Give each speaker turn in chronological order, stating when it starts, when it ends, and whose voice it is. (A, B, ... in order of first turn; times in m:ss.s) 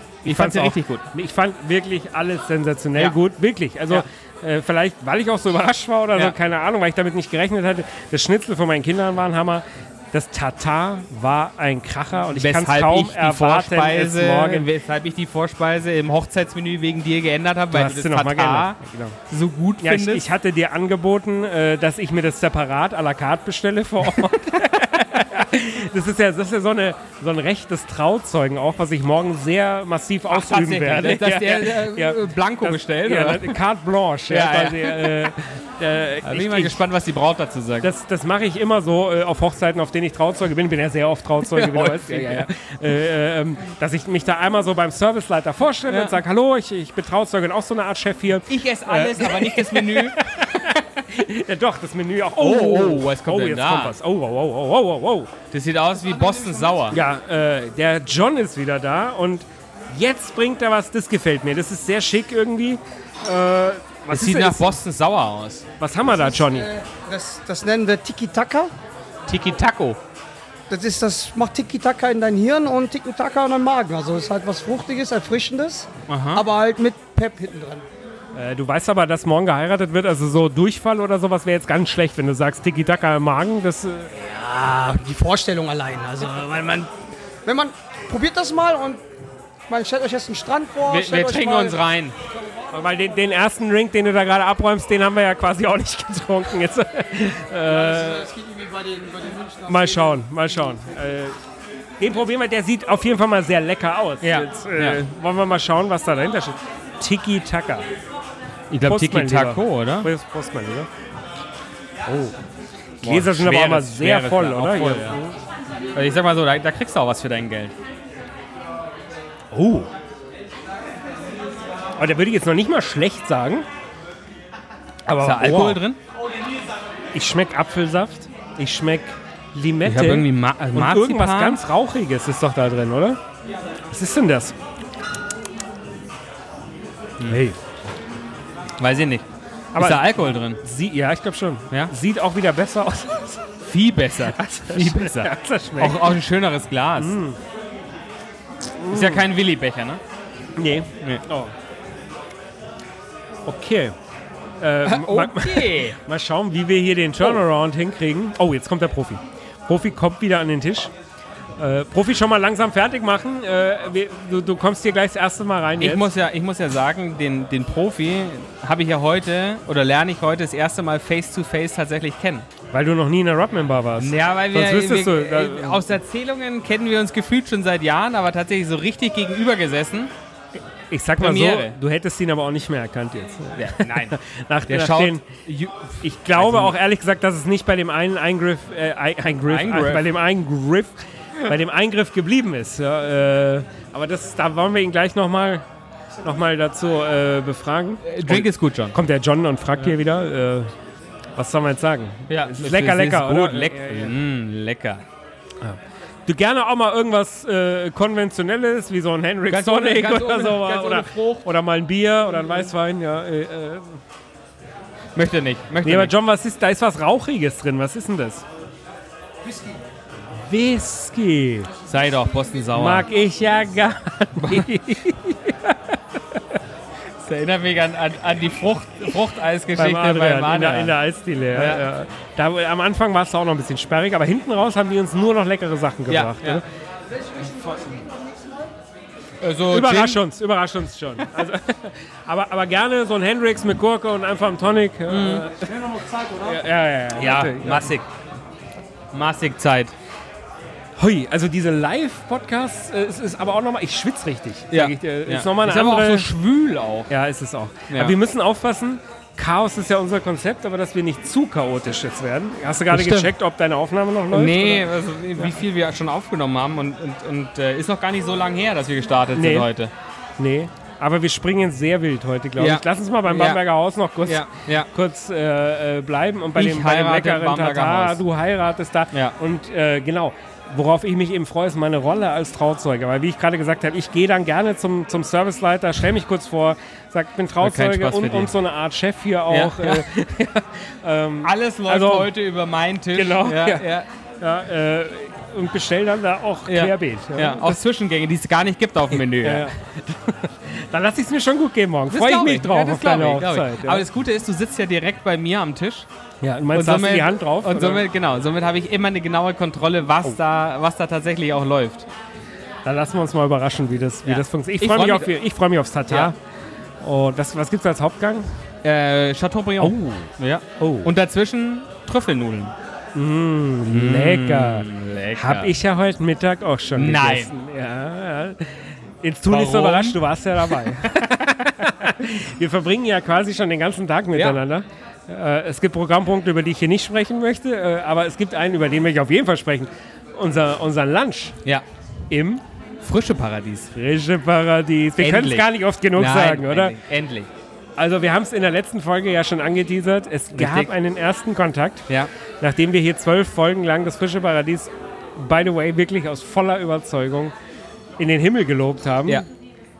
0:00.2-0:14.7 A
0:00.2-0:01.0 B
0:12.3-0:18.8 B
0:17.7-0:19.2 A
0:19.3-0:20.3 B
0:19.8-0:36.8 A
0:30.3-0:33.6 B
0:34.3-0:35.3 B
0:36.2-0:37.9 B
0:37.8-0:55.3 A
0:41.5-0:42.5 B
0:45.9-0:46.2 B
0:48.5-0:50.3 B
0:52.4-0:54.0 B
0:55.5-0:57.0 B
0:56.0-0:56.9 C
0:56.9-1:04.8 A
1:04.1-1:05.6 B
1:05.8-1:06.7 A
1:06.1-1:08.7 C
1:09.3-1:10.0 B
1:10.7-1:17.9 C
1:16.1-1:16.4 B
1:18.4-1:24.1 A
1:24.1-1:26.9 C
1:27.4-1:29.0 C
1:29.7-1:31.8 C
1:30.8-1:32.1 B
1:32.3-1:32.8 C
1:32.7-1:38.3 A
1:37.6-1:40.2 C
1:39.6-1:41.4 A
1:42.0-1:47.9 A
1:44.2-1:45.0 B
1:48.7-1:50.1 B
1:48.8-1:50.9 A
1:52.1-1:52.3 A
1:53.0-1:55.2 B
1:53.0-1:55.4 A
1:56.0-1:57.7 B
1:59.5-1:59.9 A
2:02.0-2:03.7 A
2:05.1-2:05.8 A
2:05.2-2:06.0 B
2:07.1-2:13.2 A
2:09.8-2:11.6 B
2:13.9-2:14.6 A
2:17.2-2:17.6 A
2:18.8-2:19.2 B
2:19.7-2:23.4 A
2:19.8-2:20.6 B
2:23.6-2:27.2 B
2:24.3-2:26.2 A
2:27.0-2:27.4 A
2:28.8-2:29.3 A
2:28.9-2:30.0 B
2:30.6-2:31.5 A
2:33.4-2:34.0 A
2:34.6-2:40.9 A
2:34.8-2:36.0 B
2:41.6-2:46.1 A
2:45.8-2:52.5 B
2:52.7-2:55.9 A
2:54.0-3:00.1 B
3:00.9-3:05.2 A
3:01.2-3:01.8 B
3:03.6-3:04.2 B
3:04.7-3:06.8 B
3:06.0-3:15.6 A
3:09.5-3:10.1 B
3:16.2-3:20.7 A
3:18.0-3:19.0 B
3:21.4-3:24.2 A
3:22.3-3:25.0 B
3:25.6-3:34.0 A
3:29.5-3:31.5 B
3:35.1-3:36.1 B
3:35.8-3:38.4 A
3:40.4-3:41.7 A
3:41.9-3:43.1 B
3:42.7-3:46.6 A
3:44.4-3:44.7 B
3:47.2-3:51.0 B
3:49.8-3:56.6 A
3:51.5-3:51.9 B
3:56.1-3:56.6 B
3:57.1-3:58.7 C
3:59.4-4:00.2 B
3:59.7-4:05.8 A
4:05.1-4:05.5 B
4:05.7-4:06.6 C
4:06.4-4:08.0 A
4:07.1-4:08.1 B
4:09.1-4:09.9 B
4:11.0-4:16.3 A
4:14.7-4:17.1 B
4:17.1-4:25.6 A
4:17.9-4:18.2 B
4:22.9-4:23.3 B
4:24.3-4:29.9 B
4:29.3-4:29.7 A
4:30.4-4:52.3 A
4:32.6-4:33.6 B
4:34.2-4:34.9 B
4:36.6-4:38.2 B
4:47.6-4:48.5 B
4:49.5-4:50.0 B
4:51.4-4:54.1 B
4:53.1-4:57.8 A
4:56.7-4:59.7 B
4:59.1-5:04.1 A
5:02.1-5:06.1 B
5:06.4-5:08.1 A
5:06.7-5:12.1 B
5:12.8-5:16.4 A
5:14.2-5:15.4 B
5:17.0-5:18.5 A
5:18.8-5:22.7 B
5:19.8-5:21.1 A
5:23.1-5:41.6 A
5:23.9-5:25.7 B
5:26.9-5:27.5 B
5:29.5-5:30.8 B
5:34.4-5:34.6 B
5:42.3-5:42.6 A
5:43.0-5:43.9 B
5:43.9-5:47.0 A
5:45.2-5:47.5 B
5:48.0-5:52.1 A
5:50.5-5:50.9 B
5:52.6-5:57.5 A
5:58.2-5:59.4 A